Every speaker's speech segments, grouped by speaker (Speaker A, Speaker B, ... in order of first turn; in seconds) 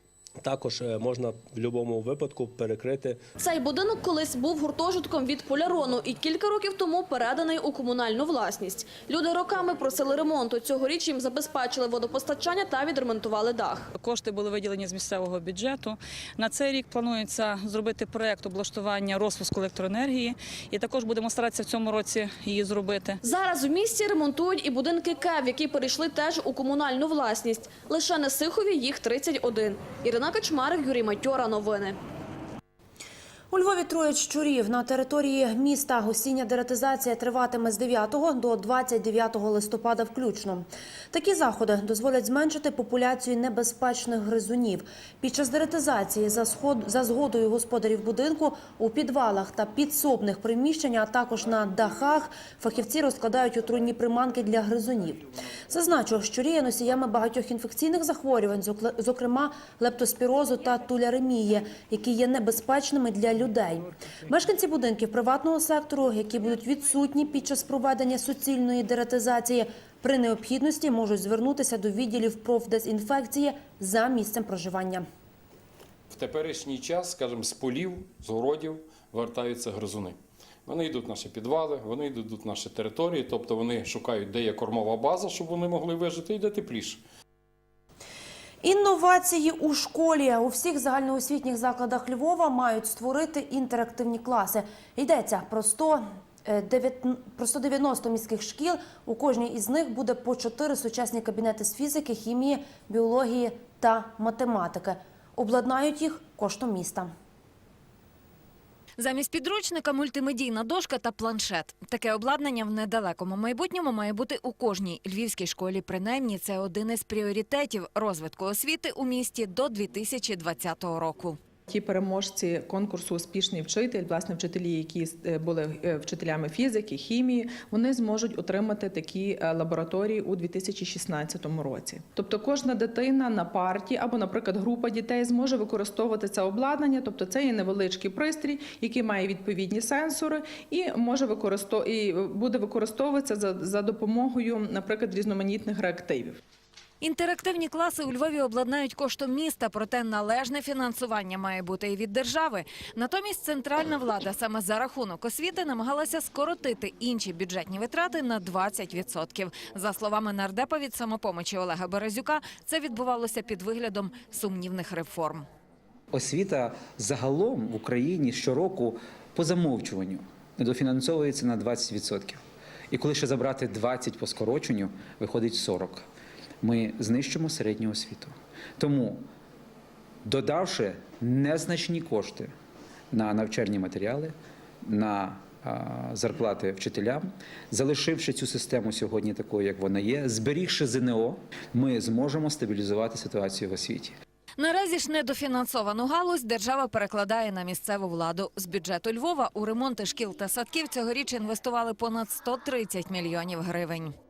Speaker A: 0.4-3.2
Speaker B: 3.4-13.9, 23.2-32.0
Speaker C: 13.9-23.2
Speaker D: 33.5-75.0, 88.6-107.1
Speaker E: 76.1-87.0
Speaker F: 109.0-121.4, 147.0-165.5, 194.6-204.1
Speaker G: 121.7-146.4
Speaker H: 166.1-172.4, 172.9-176.1, 176.6-179.2, 180.2-182.5, 183.1-194.2